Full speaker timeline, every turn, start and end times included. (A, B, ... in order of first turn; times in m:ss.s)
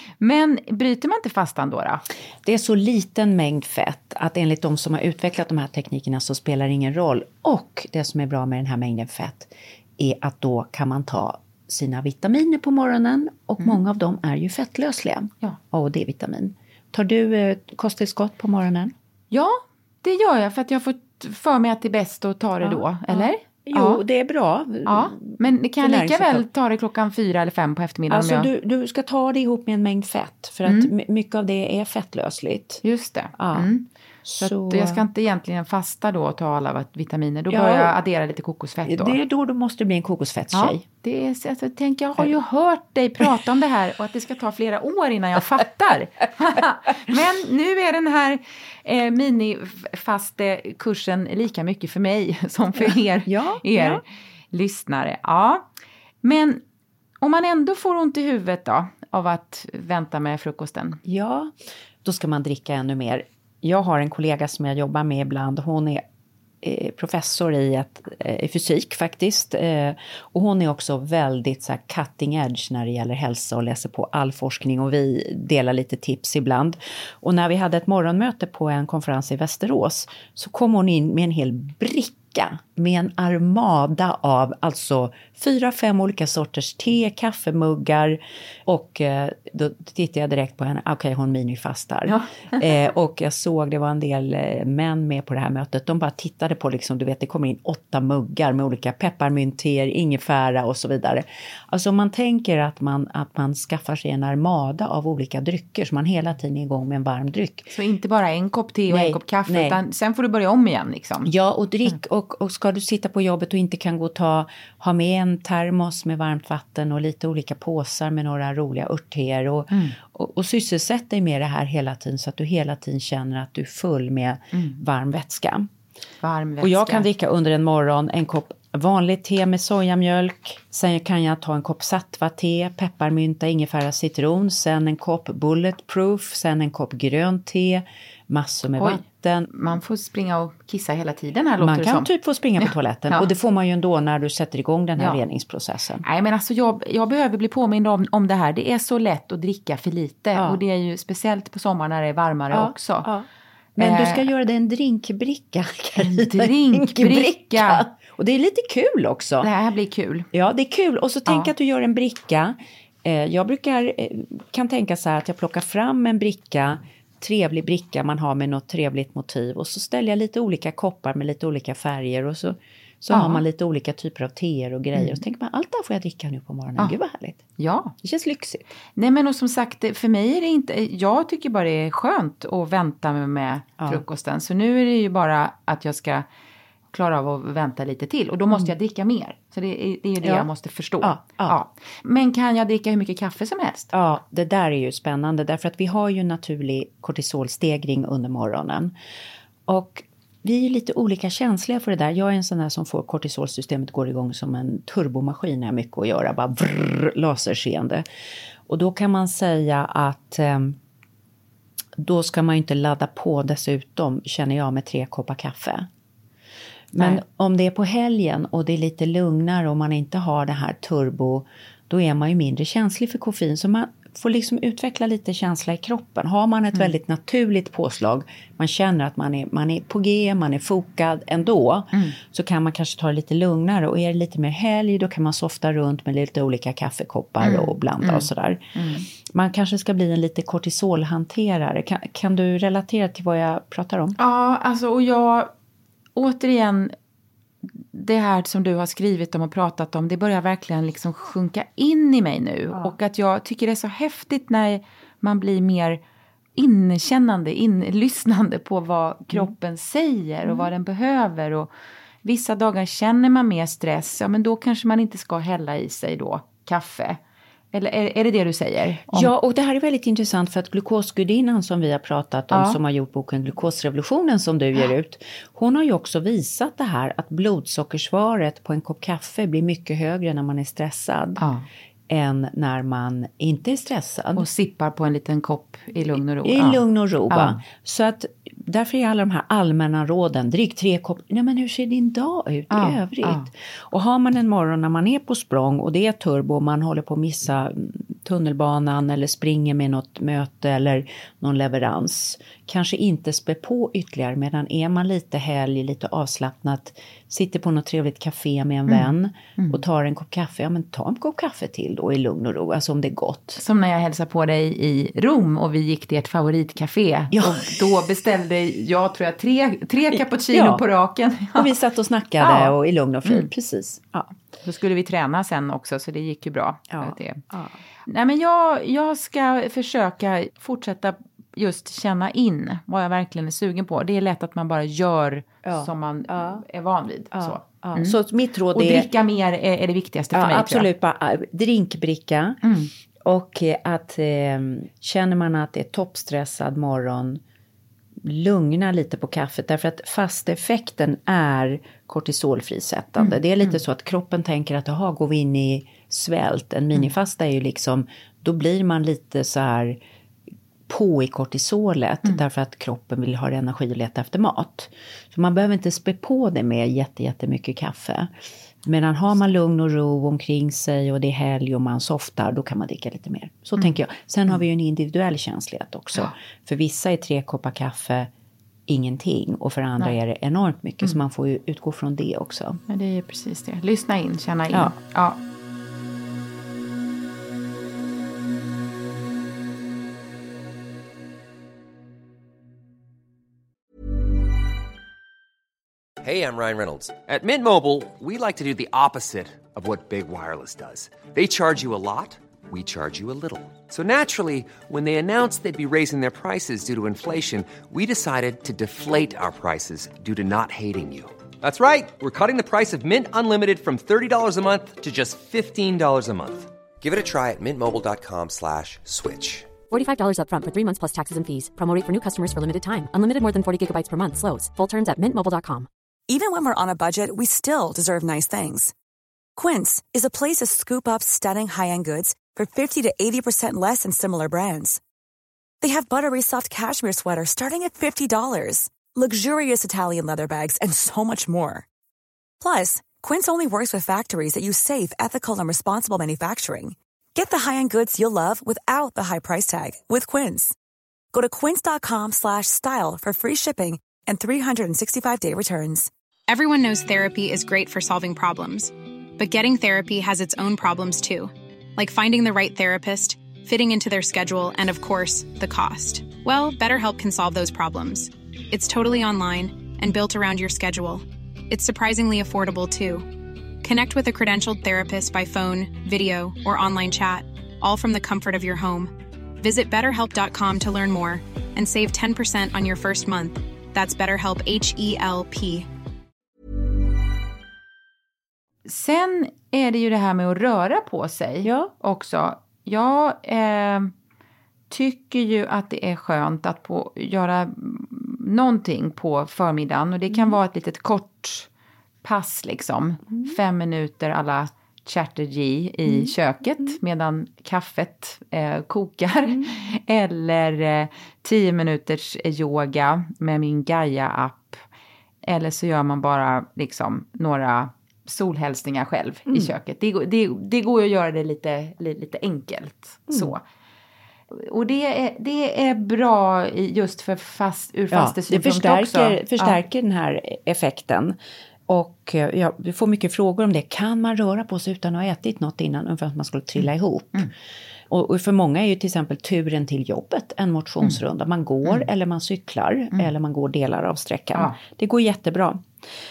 0:00.2-0:02.0 A
0:02.4-0:18.9 B
0:19.3-0:24.0 A
0:22.6-0:26.4 B
0:24.8-0:28.5 A
0:28.1-0:32.8 B
0:30.6-0:30.9 A
0:32.8-0:33.8 A
0:33.4-0:33.7 B
0:34.2-0:35.0 B
0:34.4-0:39.2 A
0:37.5-0:37.9 B
0:38.8-0:40.8 B
0:40.5-0:55.6 A
0:53.2-0:54.0 B
0:56.2-0:56.6 A
0:57.2-1:01.0 A
1:01.0-1:06.0 B
1:06.6-1:47.7 B
1:47.7-1:51.3 A
1:48.9-1:49.8 B
1:51.2-2:05.7 B
1:59.7-2:00.0 A
2:04.5-2:04.8 A
2:06.2-2:07.0 A
2:06.6-2:19.5 B
2:19.5-2:22.1 A
2:21.6-2:26.0 B
2:22.6-2:23.3 A
2:26.0-2:33.1 A
2:30.3-2:30.6 B
2:32.5-2:39.5 B
2:33.8-2:34.2 A
2:36.0-2:37.9 A
2:39.4-2:40.3 A
2:40.3-2:57.4 B
2:53.1-2:53.4 A
2:54.9-2:55.2 A
2:57.6-2:57.9 A
2:58.0-2:58.6 B
2:59.0-3:06.2 A
3:06.9-3:13.9 A
3:10.2-3:10.5 B
3:11.0-3:11.6 B
3:13.9-3:18.9 B
3:19.7-3:28.0 B
3:28.7-3:30.8 B
3:32.0-3:35.9 B
3:36.9-4:04.2 B
3:57.4-3:59.1 A
4:04.2-4:05.5 A
4:06.2-4:06.9 A
4:07.8-4:16.0 A
4:16.6-4:21.7 A
4:22.2-4:27.2 A
4:27.7-4:29.3 A
4:29.1-4:41.4 B
4:32.5-4:32.8 A
4:41.4-4:41.6 A
4:42.1-4:44.5 B
4:44.4-4:47.6 A
4:46.4-5:13.6 B
4:52.7-4:53.5 A
5:08.9-5:09.8 A
5:13.6-5:21.7 A
5:17.3-5:17.8 B
5:20.1-5:20.8 B
5:21.5-5:24.3 B
5:22.4-5:23.5 A
5:24.6-5:27.4 A
5:26.9-5:27.8 B
5:28.1-5:38.2 A
5:35.6-5:36.6 B
5:37.3-5:39.1 B
5:38.7-5:40.9 A
5:40.3-5:42.6 B
5:42.6-5:42.9 A
5:43.2-5:47.4 B
5:48.2-6:00.0 B
5:53.2-5:53.8 A
6:00.9-6:08.3 B
6:08.8-6:18.3 B
6:18.9-6:22.8 B
6:22.9-6:25.4 A
6:36.2-6:59.8 C
6:59.9-7:05.9 D
7:06.3-7:08.9 E
7:09.6-7:15.0 E
7:15.8-7:21.8 E
7:22.6-7:30.7 E
7:31.3-7:36.1 E
7:36.5-7:53.3 F
7:53.8-8:05.9 F
8:08.8-8:14.1 A
8:11.6-8:11.9 B
8:14.9-8:21.7 A
8:20.3-8:20.6 B
8:22.2-8:34.8 A
8:26.1-8:26.9 B
8:35.4-8:43.6 A
8:43.3-8:43.6 B
8:44.5-8:49.8 A
8:48.1-8:51.4 B
8:51.9-8:57.5 B
8:58.1-9:05.8 B